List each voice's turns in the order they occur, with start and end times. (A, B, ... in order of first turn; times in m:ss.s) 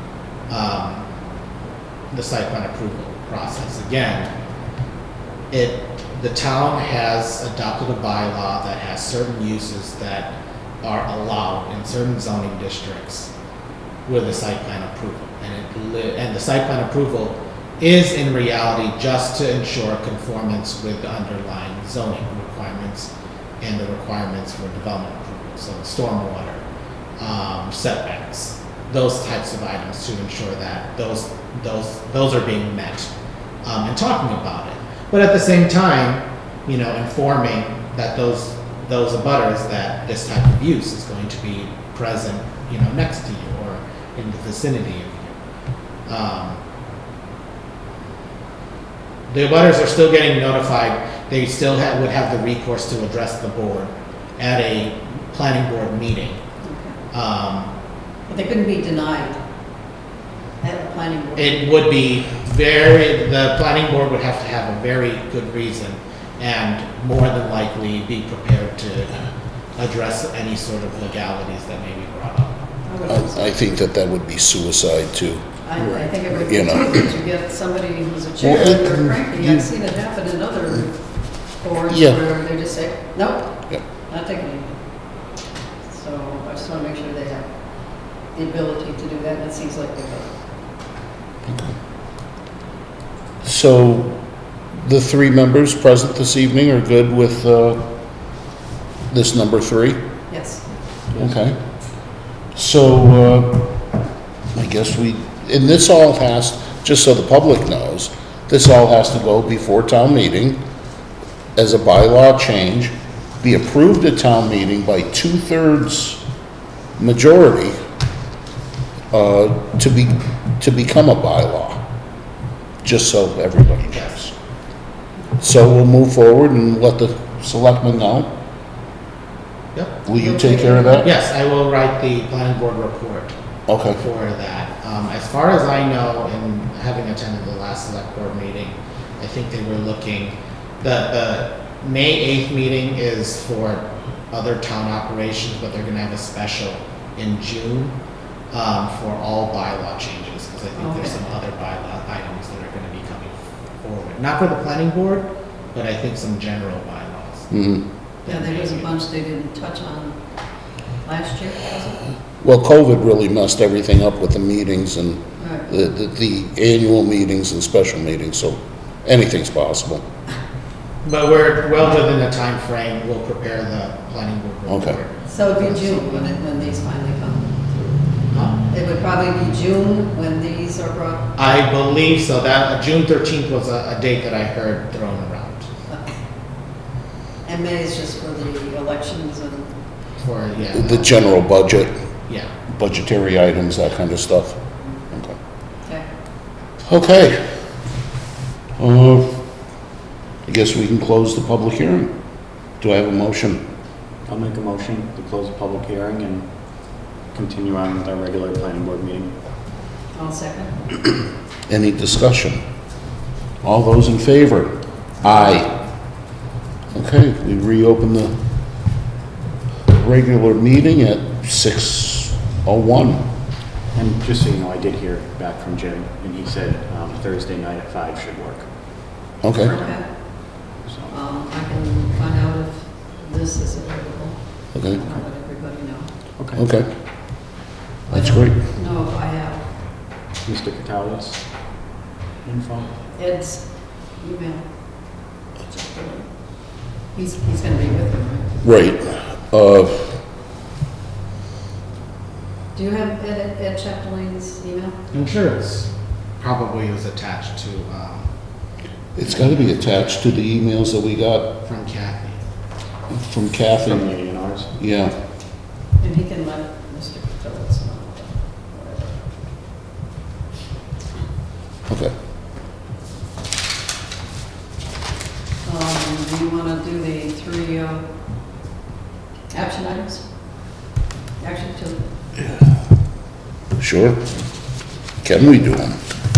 0:00.5-0:01.0 A
0:02.1-0:04.3 A
0:05.5-0:13.3 A
0:14.0-0:26.6 A
0:27.2-0:33.1 A
0:33.6-0:45.4 A
0:46.1-0:46.6 A
0:49.3-0:56.4 A
0:56.6-0:57.0 B
0:57.1-0:57.7 A
0:58.3-0:59.4 B
1:00.6-1:01.8 B
1:01.4-1:09.1 A
1:09.8-1:12.6 A
1:12.8-1:13.4 B
1:13.1-1:15.5 C
1:15.6-1:24.8 B
1:15.8-1:16.0 D
1:16.4-1:17.0 C
1:18.4-1:19.7 C
1:21.9-1:22.2 C
1:25.9-1:30.3 B
1:31.4-1:31.7 C
1:33.4-1:34.2 C
1:34.8-1:37.8 C
1:39.1-1:40.0 C
1:40.3-1:40.6 B
1:41.2-1:41.6 C
1:42.6-1:43.8 C
1:44.5-1:50.6 C
1:51.6-1:56.2 C
1:57.0-1:57.7 C
1:59.1-2:01.8 C
2:02.8-2:04.3 C
2:05.4-2:08.3 C
2:10.1-2:11.1 C
2:10.1-2:11.1 B
2:11.0-2:13.3 A
2:13.7-2:14.0 C
2:13.9-2:27.9 A
2:28.5-2:37.5 A
2:30.7-2:31.2 B
2:37.5-2:37.8 C
2:38.2-2:38.9 A
2:38.3-2:40.2 B
2:41.0-2:42.0 B
2:42.4-2:50.0 C
2:45.4-2:45.7 B
2:51.0-2:56.2 A
2:54.7-2:55.0 C
2:55.3-2:58.0 B
2:58.3-2:58.6 A
2:58.6-3:01.3 B
3:01.4-3:05.7 A
3:05.9-3:06.2 B
3:07.4-3:09.7 B
3:10.2-3:11.2 A
3:10.7-3:12.0 C
3:12.7-3:15.4 C
3:16.8-3:17.5 C
3:18.8-3:19.4 C
3:20.4-3:22.1 C
3:22.8-3:23.6 C
3:24.2-3:26.5 D
3:27.3-3:29.3 D
3:30.1-3:30.9 B
3:31.7-3:32.6 C
3:33.6-3:35.7 C
3:36.9-3:38.4 C
3:39.9-3:43.3 C
3:43.9-3:48.7 D
3:49.3-3:49.9 D
3:49.4-3:49.7 C
3:49.6-3:56.1 B
3:50.4-3:51.1 D
3:54.7-3:55.0 C
3:56.4-3:56.6 D
3:56.5-3:56.9 C
3:58.1-3:59.7 B
3:58.1-3:58.6 C
4:00.4-4:01.4 D
4:02.4-4:03.0 D
4:03.1-4:04.7 B
4:05.7-4:06.3 B
4:06.9-4:08.5 B
4:08.6-4:10.1 C
4:12.8-4:15.0 B
4:15.1-4:18.3 A
4:19.1-4:21.6 C
4:19.2-4:20.2 A
4:21.6-4:22.4 A
4:23.1-4:24.2 C
4:23.8-4:24.7 D
4:24.8-4:25.1 C
4:26.0-4:29.2 B
4:31.9-4:32.1 C
4:35.6-4:38.1 B
4:39.5-4:40.8 B
4:41.4-4:42.0 B
4:43.8-4:44.3 C
4:45.2-4:46.0 C